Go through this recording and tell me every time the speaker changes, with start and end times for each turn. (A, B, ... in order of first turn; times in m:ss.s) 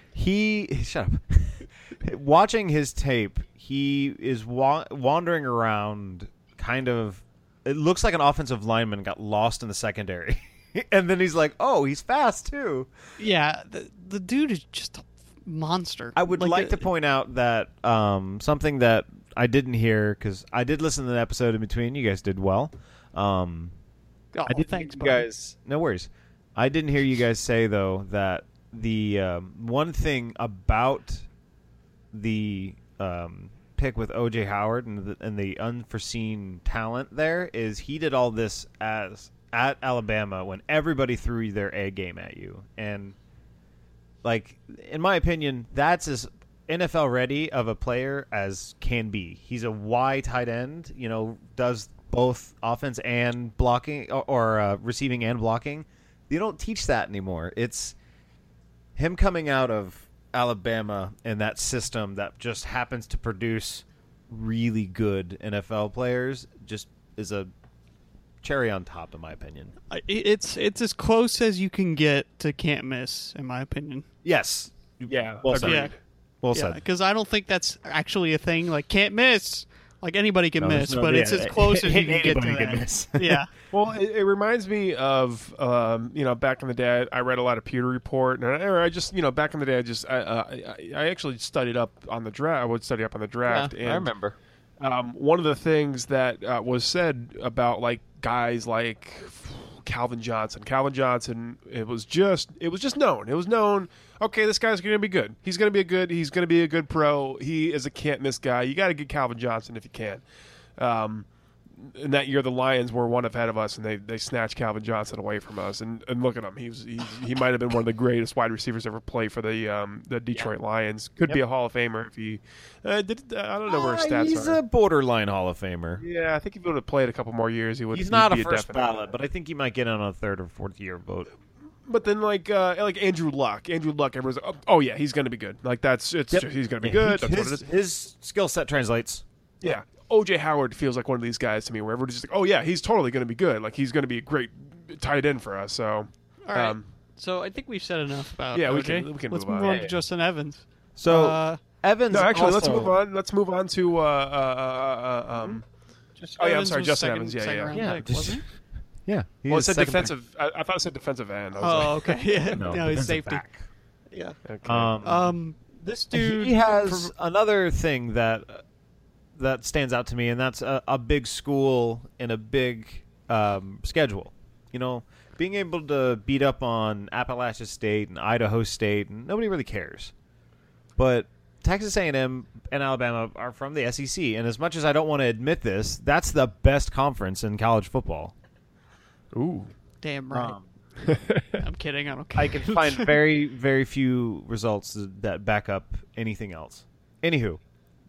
0:00.1-0:12.9 A
0:13.2-0:16.9 B
0:16.1-0:23.7 A
0:24.3-0:25.2 B
0:24.5-0:31.3 A
0:32.1-0:43.2 A
0:44.2-0:58.0 A
0:59.0-1:07.5 A
1:08.4-1:09.7 A
1:09.9-1:14.0 B
1:14.2-1:15.9 A
1:15.1-1:16.0 C
1:15.6-1:15.9 B
1:16.4-1:16.8 A
1:16.5-1:23.5 B
1:20.6-1:23.4 A
1:23.7-1:34.1 C
1:33.4-1:34.4 A
1:34.8-1:50.2 C
1:50.8-2:04.6 C
2:03.7-2:06.0 A
2:06.0-2:08.9 C
2:07.9-2:11.3 A
2:11.9-2:17.6 C
2:16.3-2:19.2 A
2:19.6-2:26.8 C
2:26.5-2:31.6 B
2:28.5-2:29.8 C
2:29.6-2:30.0 A
2:31.0-2:33.0 A
2:32.1-2:35.6 C
2:36.2-2:38.4 B
2:36.4-2:37.9 C
2:37.7-2:38.4 A
2:39.1-2:40.1 A
2:39.5-2:42.2 C
2:41.6-2:43.4 B
2:42.5-2:43.6 A
2:44.1-2:44.4 B
2:44.4-2:44.9 C
2:44.6-2:45.3 A
2:45.0-2:47.1 B
2:46.1-2:48.6 A
2:49.4-3:00.1 A
3:01.0-3:08.3 A
3:09.3-3:09.7 C
3:10.0-3:10.6 B
3:10.3-3:10.6 A
3:11.0-3:11.6 C
3:11.6-3:13.2 B
3:12.4-3:17.6 A